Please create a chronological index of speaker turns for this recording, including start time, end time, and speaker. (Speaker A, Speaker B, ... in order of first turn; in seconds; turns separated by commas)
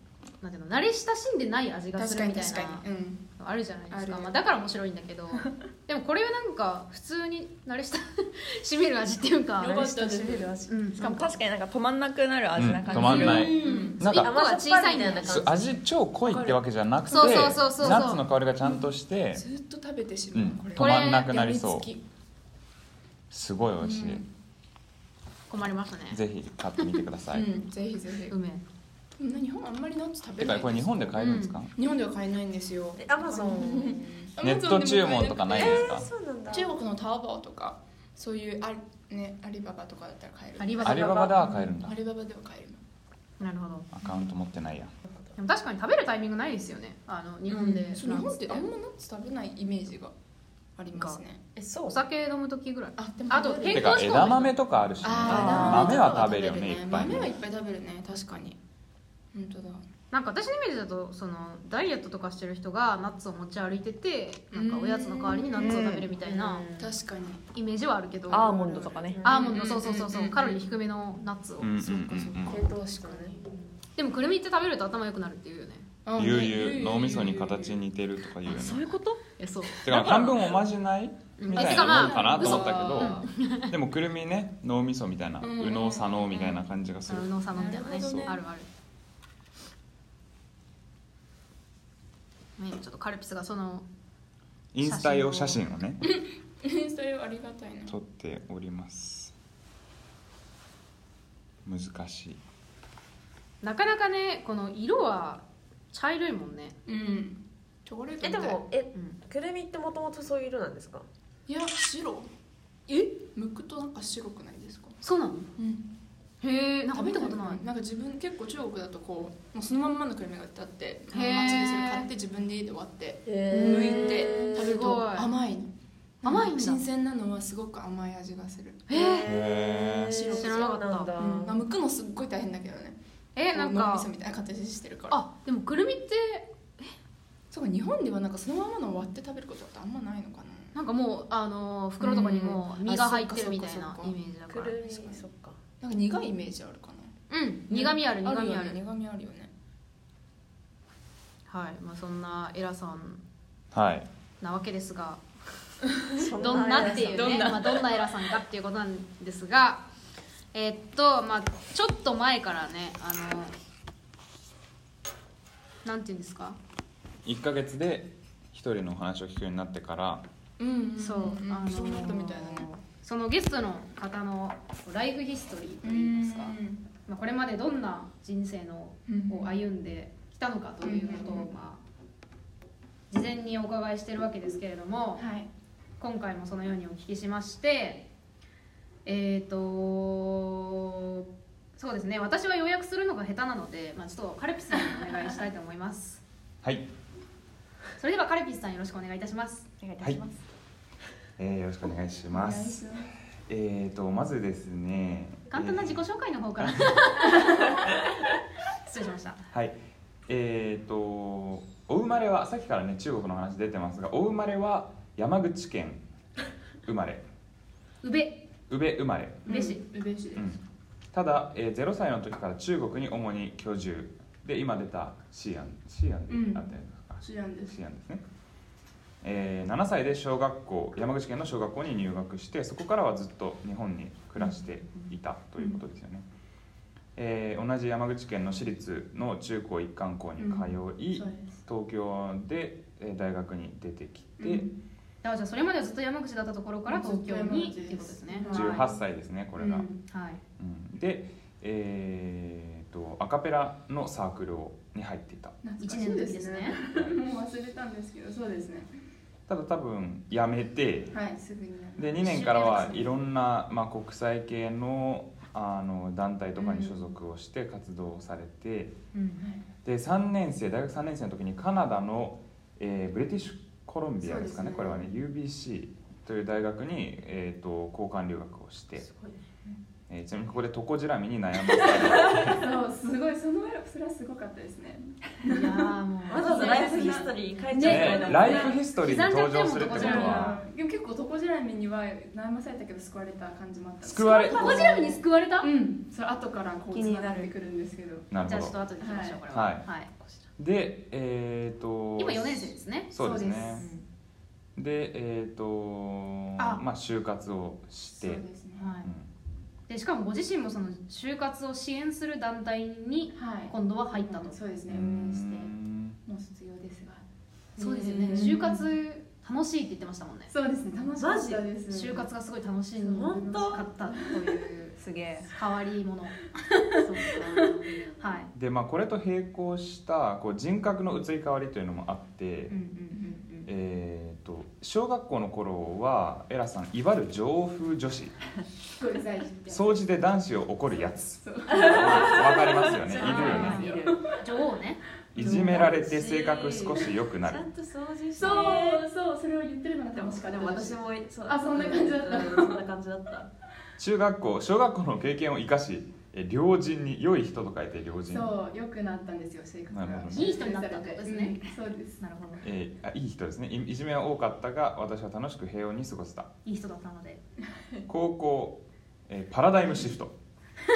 Speaker A: 0.4-2.9, Speaker B: 2.0-3.3, Speaker A: 3.4-9.9, Speaker B: 3.9-4.3, Speaker B: 9.6-10.7, Speaker C: 9.7-10.6, Speaker A: 10.7-11.3, Speaker D: 10.9-13.6, Speaker E: 12.6-14.3, Speaker A: 12.9-15.6, Speaker C: 13.3-15.7, Speaker B: 13.3-14.0, Speaker E: 15.2-19.4, Speaker B: 16.2-16.6, Speaker B: 17.1-18.0, Speaker A: 17.1-18.2, Speaker B: 18.6-22.0, Speaker E: 20.3-21.9, Speaker A: 20.8-21.3, Speaker E: 23.3-24.2, Speaker B: 23.8-24.3, Speaker A: 25.5-26.2, Speaker E: 26.1-27.5, Speaker B: 27.3-28.4, Speaker A: 28.3-28.6, Speaker B: 29.2-42.8, Speaker E: 30.4-31.7, Speaker A: 31.2-31.6, Speaker C: 33.0-34.3, Speaker E: 34.4-36.1, Speaker C: 35.5-36.8, Speaker A: 40.6-41.4, Speaker E: 40.8-42.0, Speaker A: 43.4-43.9, Speaker E: 43.9-44.9, Speaker A: 45.4-48.7, Speaker B: 47.5-50.1, Speaker B: 50.8-51.4, Speaker A: 50.9-51.2, Speaker C: 51.6-52.0, Speaker A: 51.9-54.6, Speaker B: 53.0-54.0, Speaker E: 53.7-57.3, Speaker B: 55.0-58.6, Speaker C: 55.2-56.0, Speaker A: 55.3-56.0, Speaker B: 59.3-59.8, Speaker A: 60.1-66.7, Speaker B: 64.5-66.0, Speaker C: 65.6-66.9, Speaker B: 66.8-67.5, Speaker A: 67.5-68.6, Speaker B: 68.3-70.6, Speaker D: 68.3-69.2, Speaker C: 68.3-69.6, Speaker A: 69.2-71.7, Speaker E: 71.6-72.6, Speaker B: 71.8-73.5, Speaker C: 72.4-73.5, Speaker A: 74.0-75.9, Speaker B: 76.0-77.8, Speaker E: 76.2-79.0, Speaker D: 78.5-79.2, Speaker A: 79.3-80.5, Speaker E: 79.8-87.3, Speaker A: 81.4-83.7, Speaker B: 81.5-83.3, Speaker A: 85.4-88.7, Speaker B: 87.5-88.3, Speaker E: 88.0-88.3, Speaker A: 92.6-93.9, Speaker E: 94.7-96.0, Speaker A: 94.8-95.6, Speaker B: 96.1-98.0, Speaker E: 97.9-99.3, Speaker E: 101.6-102.4, Speaker A: 103.6-106.8, Speaker B: 106.9-108.6, Speaker C: 108.2-111.1, Speaker B: 111.5-112.3, Speaker A: 112.9-113.1, Speaker B: 113.2-115.0, Speaker A: 115.0-115.5, Speaker B: 115.6-115.9, Speaker A: 116.4-117.6, Speaker B: 116.9-125.7, Speaker A: 121.1-122.1, Speaker C: 123.3-124.8, Speaker A: 123.5-125.3, Speaker B: 126.2-128.9, Speaker A: 126.2-126.8, Speaker A: 128.9-129.3, Speaker C: 128.9-131.6, Speaker E: 129.2-130.2, Speaker B: 130.1-130.7, Speaker A: 130.3-131.1, Speaker B: 131.2-133.0, Speaker A: 133.3-134.1, Speaker B: 133.5-135.2, Speaker A: 135.1-136.9, Speaker B: 137.5-140.8, Speaker A: 140.7-144.8, Speaker B: 142.0-144.2, Speaker C: 144.5-145.6, Speaker B: 144.8-145.2, Speaker B: 145.8-147.1, Speaker A: 147.3-148.8, Speaker B: 147.7-149.5, Speaker A: 151.5-153.2, Speaker E: 153.7-154.1, Speaker A: 154.4-155.2, Speaker C: 156.2-157.5, Speaker A: 156.2-159.9, Speaker B: 156.5-157.9, Speaker A: 160.5-163.5, Speaker A: 165.8-166.6, Speaker E: 167.2-170.2, Speaker B: 170.6-172.7, Speaker A: 171.0-181.8, Speaker B: 175.8-176.8, Speaker B: 179.1-179.6, Speaker B: 180.8-181.5, Speaker A: 183.1-185.2, Speaker B: 185.2-185.5, Speaker A: 186.0-188.1, Speaker A: 189.1-191.2, Speaker A: 191.8-196.2, Speaker E: 196.6-196.9, Speaker A: 198.0-199.7, Speaker D: 199.8-200.4, Speaker E: 201.4-202.8, Speaker B: 202.3-203.1, Speaker E: 203.5-206.1, Speaker A: 205.5-207.8, Speaker E: 206.6-207.0, Speaker A: 208.8-209.4, Speaker E: 209.5-209.8, Speaker E: 210.3-216.0, Speaker E: 216.8-217.2, Speaker A: 218.0-218.5, Speaker E: 218.7-219.5, Speaker B: 219.5-220.6, Speaker A: 219.5-219.8, Speaker E: 221.1-228.2, Speaker B: 226.3-227.8, Speaker E: 229.2-236.2, Speaker E: 237.2-244.7, Speaker B: 240.4-241.6, Speaker B: 244.4-244.8, Speaker A: 245.2-248.9, Speaker B: 246.9-249.0, Speaker E: 248.5-249.9, Speaker B: 249.6-250.0, Speaker A: 250.0-250.4, Speaker E: 250.6-255.6, Speaker B: 255.6-258.9, Speaker A: 255.8-256.8, Speaker E: 259.5-261.2, Speaker B: 261.1-262.2, Speaker E: 262.0-269.0, Speaker A: 262.2-263.1, Speaker B: 266.6-267.1, Speaker A: 269.1-269.4, Speaker B: 269.4-269.6, Speaker E: 269.9-279.1, Speaker B: 274.2-275.1, Speaker C: 279.0-279.4, Speaker E: 280.1-282.7, Speaker B: 282.4-287.3, Speaker A: 285.4-290.6, Speaker C: 286.3-288.8, Speaker E: 287.8-290.5, Speaker B: 289.8-298.3, Speaker E: 294.0-295.2, Speaker A: 294.1-295.7, Speaker A: 296.9-297.4, Speaker E: 298.3-298.8, Speaker A: 298.4-300.1, Speaker B: 299.0-299.4, Speaker E: 299.5-299.9, Speaker E: 300.6-303.9, Speaker A: 302.2-303.1, Speaker B: 303.2-303.9, Speaker A: 303.8-304.1, Speaker E: 304.8-308.4, Speaker A: 306.6-306.8, Speaker B: 308.2-308.9, Speaker A: 308.8-309.1, Speaker E: 309.0-309.3, Speaker A: 309.9-314.6, Speaker B: 313.3-317.2, Speaker E: 314.9-316.2, Speaker A: 317.8-320.5, Speaker B: 317.8-318.9, Speaker C: 318.0-318.7, Speaker B: 320.5-322.3, Speaker C: 321.2-321.6, Speaker A: 321.9-328.5, Speaker C: 323.0-324.1, Speaker B: 327.0-327.8, Speaker C: 327.2-327.7, Speaker E: 328.5-332.8, Speaker A: 332.7-333.7, Speaker E: 333.7-338.4, Speaker B: 339.0-340.1, Speaker E: 339.7-343.9, Speaker B: 341.0-344.4, Speaker C: 341.7-344.2, Speaker A: 343.2-345.5, Speaker E: 345.3-347.7, Speaker C: 345.4-349.1, Speaker B: 345.5-345.7, Speaker B: 348.4-352.8, Speaker A: 348.5-348.8, Speaker C: 350.1-353.5, Speaker E: 354.0-358.6, Speaker B: 358.3-362.2, Speaker E: 359.9-360.6, Speaker A: 360.3-362.6, Speaker E: 362.6-366.5, Speaker A: 366.6-367.4, Speaker E: 368.1-370.3